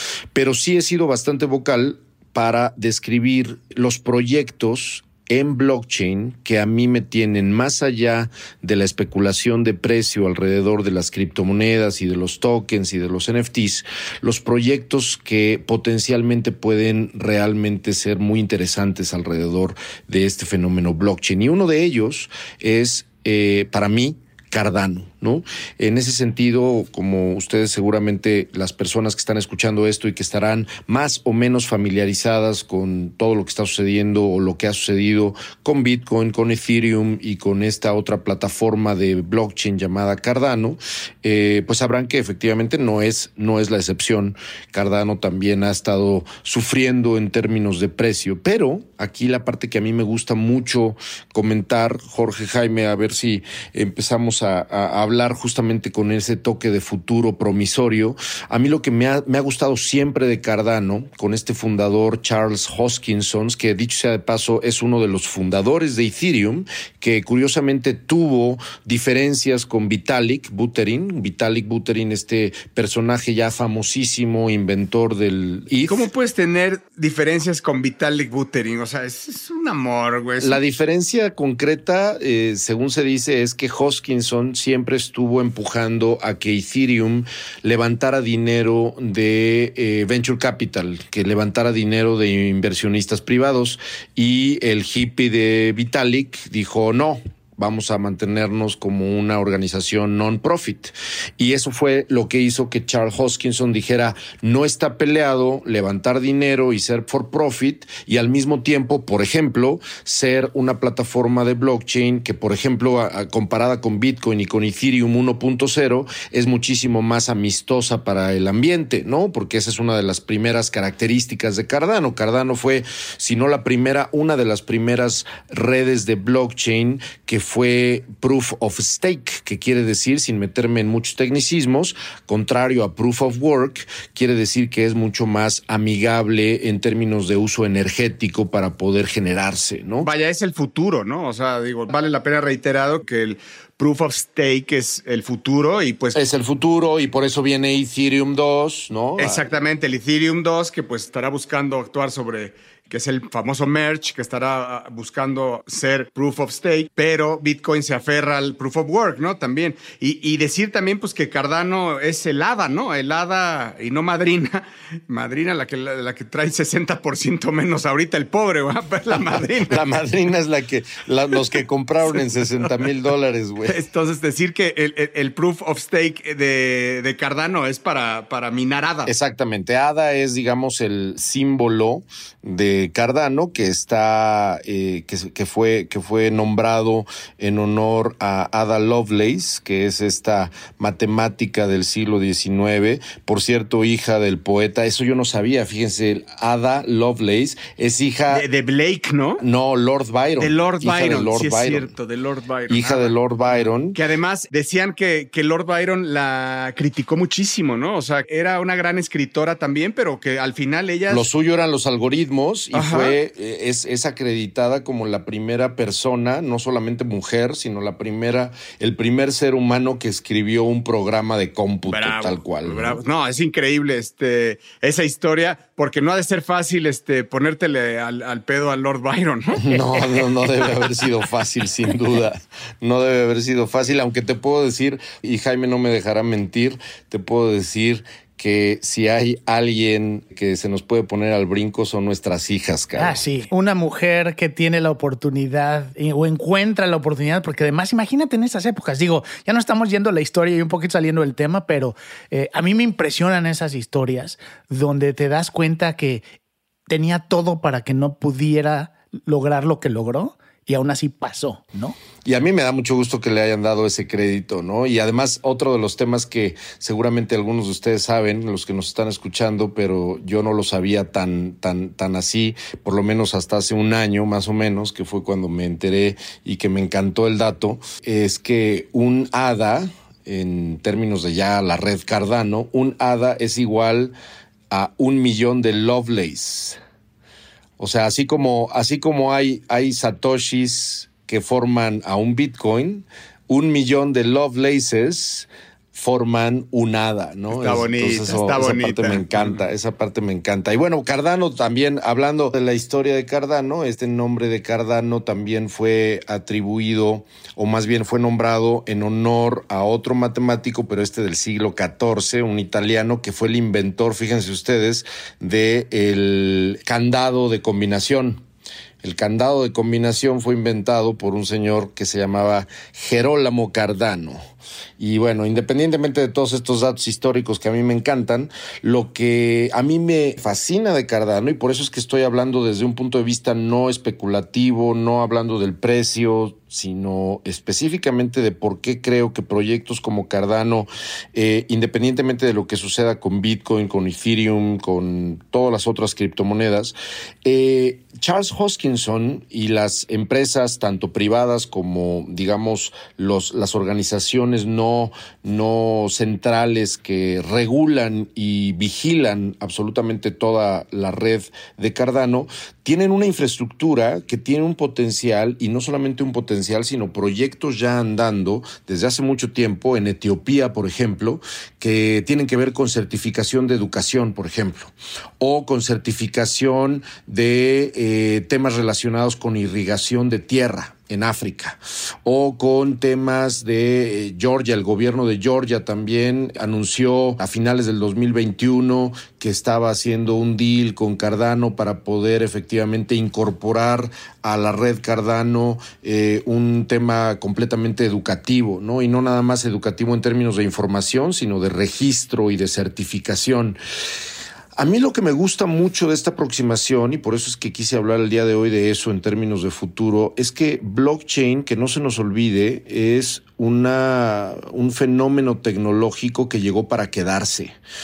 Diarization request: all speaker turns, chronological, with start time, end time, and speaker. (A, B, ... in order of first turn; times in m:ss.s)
0:00.3-1:16.1 A
1:15.9-1:20.6 B
1:20.4-2:20.1 A
2:20.0-2:26.2 B
2:26.1-2:29.4 A
2:29.2-2:49.8 B
2:49.7-2:53.8 A
2:52.1-2:52.6 B
2:53.6-2:59.1 B
2:59.0-3:18.4 A
3:18.3-3:19.4 B
3:19.4-3:21.9 A
3:20.4-3:31.3 B
3:22.7-3:24.0 A
3:31.1-3:43.0 A
3:32.7-3:33.2 B
3:41.9-3:50.3 B
3:49.6-4:03.2 A
4:03.0-4:16.2 C
4:16.9-4:22.0 C
4:22.2-4:44.1 A
4:44.7-4:46.8 A
4:47.8-5:18.4 A
4:57.5-4:59.6 B
5:19.0-5:24.4 A
5:25.0-6:43.8 A
6:44.8-6:57.8 A